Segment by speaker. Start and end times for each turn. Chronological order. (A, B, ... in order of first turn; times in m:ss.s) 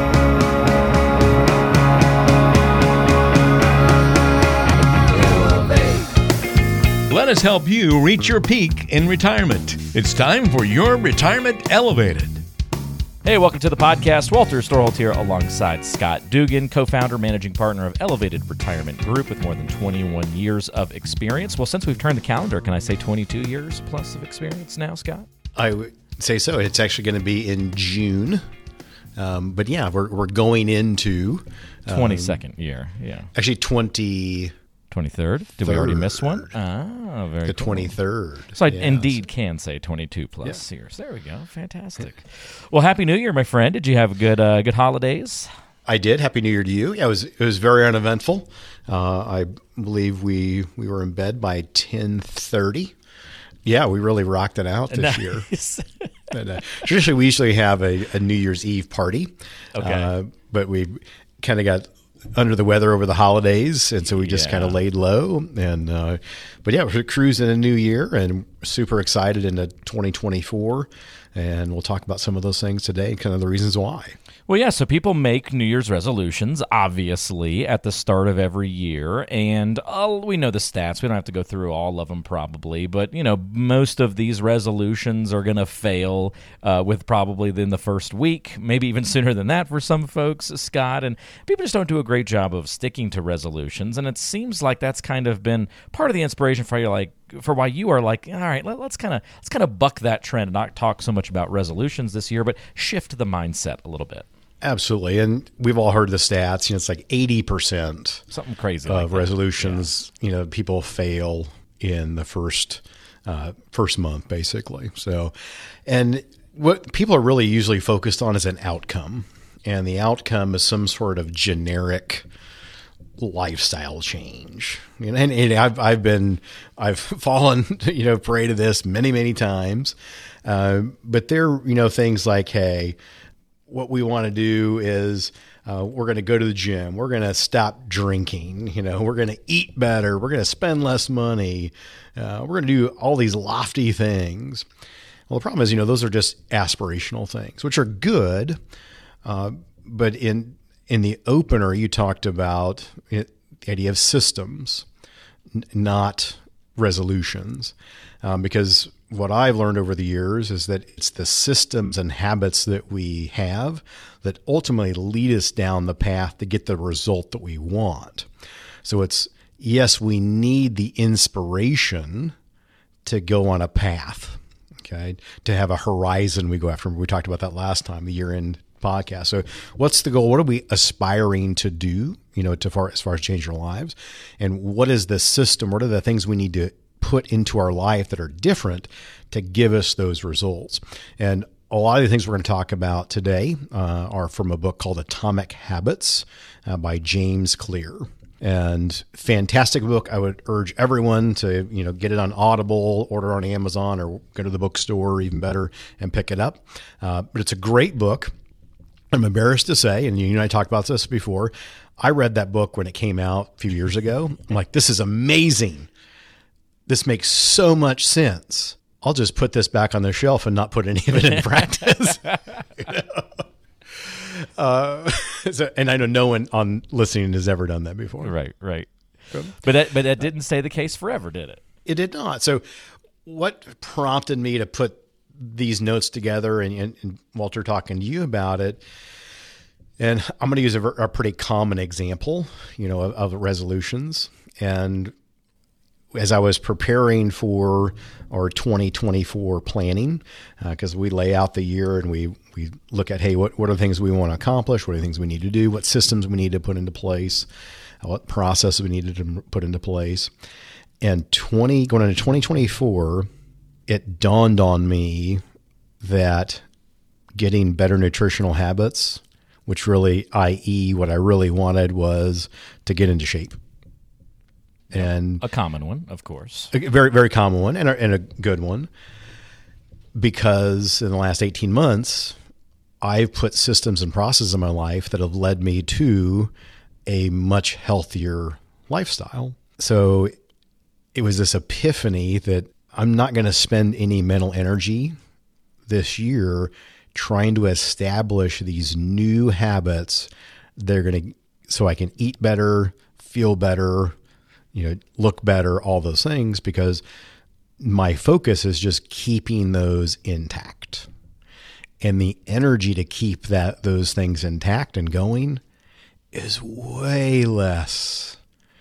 0:05.1-0:06.1 A
0:07.1-0:12.4 A
0:13.2-0:25.3 B
0:25.6-0:28.4 C
0:29.2-0:32.4 C
0:31.9-0:33.3 B
0:33.3-0:34.6 C
0:34.9-0:38.0 B
0:35.6-0:36.5 C
0:37.5-0:39.2 C
0:38.6-0:45.5 B
0:45.9-0:52.9 C
0:53.6-0:55.5 C
0:54.9-0:56.1 B
0:56.3-1:14.2 C
0:59.8-1:00.1 B
1:04.2-1:04.8 B
1:14.5-1:44.3 B
1:44.6-1:48.2 C
1:48.3-1:49.9 B
1:48.9-1:55.3 C
1:55.9-2:02.3 C
2:03.2-2:13.0 C
2:13.7-2:24.7 C
2:25.3-2:28.6 C
2:29.2-2:34.9 C
2:35.5-2:48.3 C
2:48.8-2:52.4 C
2:53.0-3:28.3 C
3:29.1-3:35.9 C
3:36.9-3:42.2 C
3:41.2-3:42.6 B
3:42.8-3:48.4 C
3:48.2-3:48.9 B
3:49.4-3:51.6 B
3:51.8-3:52.6 C
3:53.2-3:58.8 C
4:00.0-4:05.1 C
4:06.1-4:17.5 C
4:18.0-4:20.3 C
4:21.0-4:23.3 C
4:23.9-4:25.4 C
4:26.0-4:26.6 C
4:27.4-4:33.6 C
4:34.9-4:35.4 C
4:34.9-4:36.7 B
4:36.7-4:38.9 C
4:40.2-4:42.4 C
4:43.0-4:46.5 C
4:47.1-4:50.3 C
4:51.1-4:55.2 C
4:55.9-5:04.2 C
5:04.7-5:07.0 C
5:07.8-5:11.1 C
5:12.0-5:15.6 C
5:16.3-5:18.4 C